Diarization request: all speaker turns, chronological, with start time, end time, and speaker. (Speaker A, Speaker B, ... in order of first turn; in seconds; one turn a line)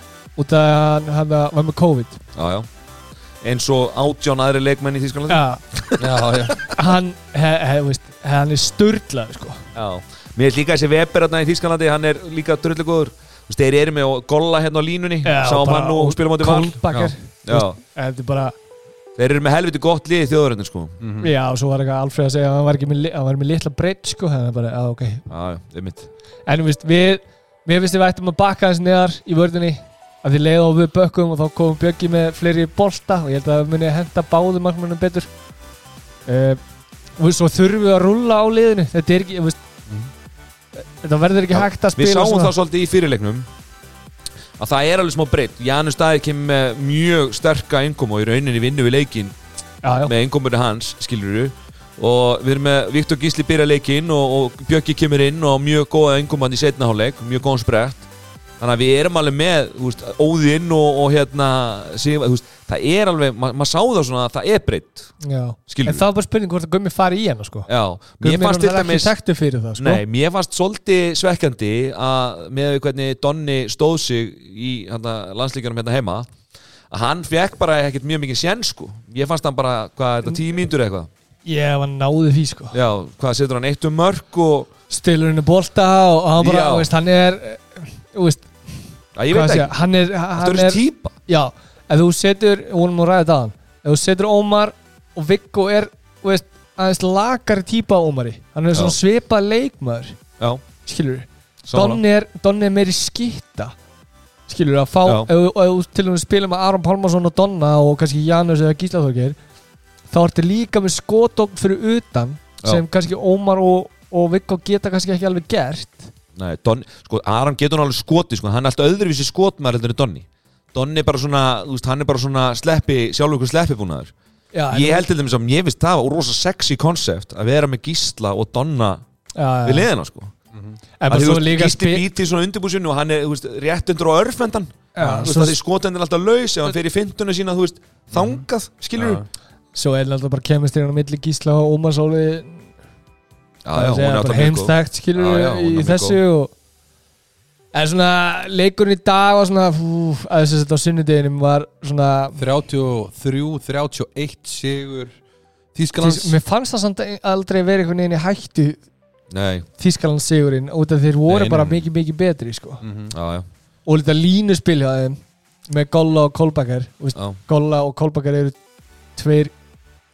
Speaker A: 0.4-2.2
Speaker B: 2.4-2.7
Speaker B: 3.4-6.5
Speaker A: 5.3-5.6
Speaker C: 6.0-6.6
Speaker A: 6.7-9.7
Speaker B: 9.8-16.8
Speaker A: 15.2-18.6
Speaker B: 17.5-17.8
Speaker B: 19.2-20.9
Speaker C: 21.0-21.3
Speaker A: 21.2-25.3
Speaker B: 25.3-26.1
Speaker A: 26.5-35.3
Speaker A: 36.3-36.6
Speaker A: 37.2-39.6
Speaker A: 41.0-42.5
Speaker B: 41.5-43.5
Speaker B: 44.6-49.4
Speaker A: 49.8-50.1
Speaker B: 50.0-58.1
Speaker B: 58.6-65.1
Speaker A: 65.2-67.7
Speaker B: 65.7-66.0
Speaker B: 67.7-69.1
Speaker A: 68.2-70.0
Speaker B: 69.8-76.3
Speaker B: 76.9-81.1
Speaker A: 81.5-82.8
Speaker B: 82.7-84.7
Speaker A: 84.9-88.5
Speaker B: 86.4-86.9
Speaker B: 89.2-89.7
Speaker A: 89.3-100.2
Speaker B: 90.4-91.1
Speaker A: 100.9-103.8
Speaker B: 101.7-102.0
Speaker A: 104.5-109.4
Speaker A: 110.1-116.1
Speaker B: 116.4-124.1
Speaker A: 124.5-125.1
Speaker B: 124.7-129.0
Speaker A: 129.4-129.9
Speaker B: 129.7-130.3
Speaker C: 130.5-130.8
Speaker A: 131.0-132.1
Speaker B: 131.1-139.2
Speaker A: 134.9-135.6
Speaker C: 138.1-138.4
Speaker C: 139.0-139.2
Speaker A: 139.7-142.7
Speaker B: 143.7-146.2
Speaker A: 143.7-146.5
Speaker A: 147.7-152.4
Speaker C: 152.4-155.2
Speaker C: 155.8-156.4
Speaker A: 156.0-158.8
Speaker B: 159.3-159.7
Speaker A: 159.8-162.8
Speaker B: 161.3-161.8
Speaker C: 162.8-163.2
Speaker B: 163.1-163.5
Speaker A: 163.9-168.6
Speaker A: 169.2-169.5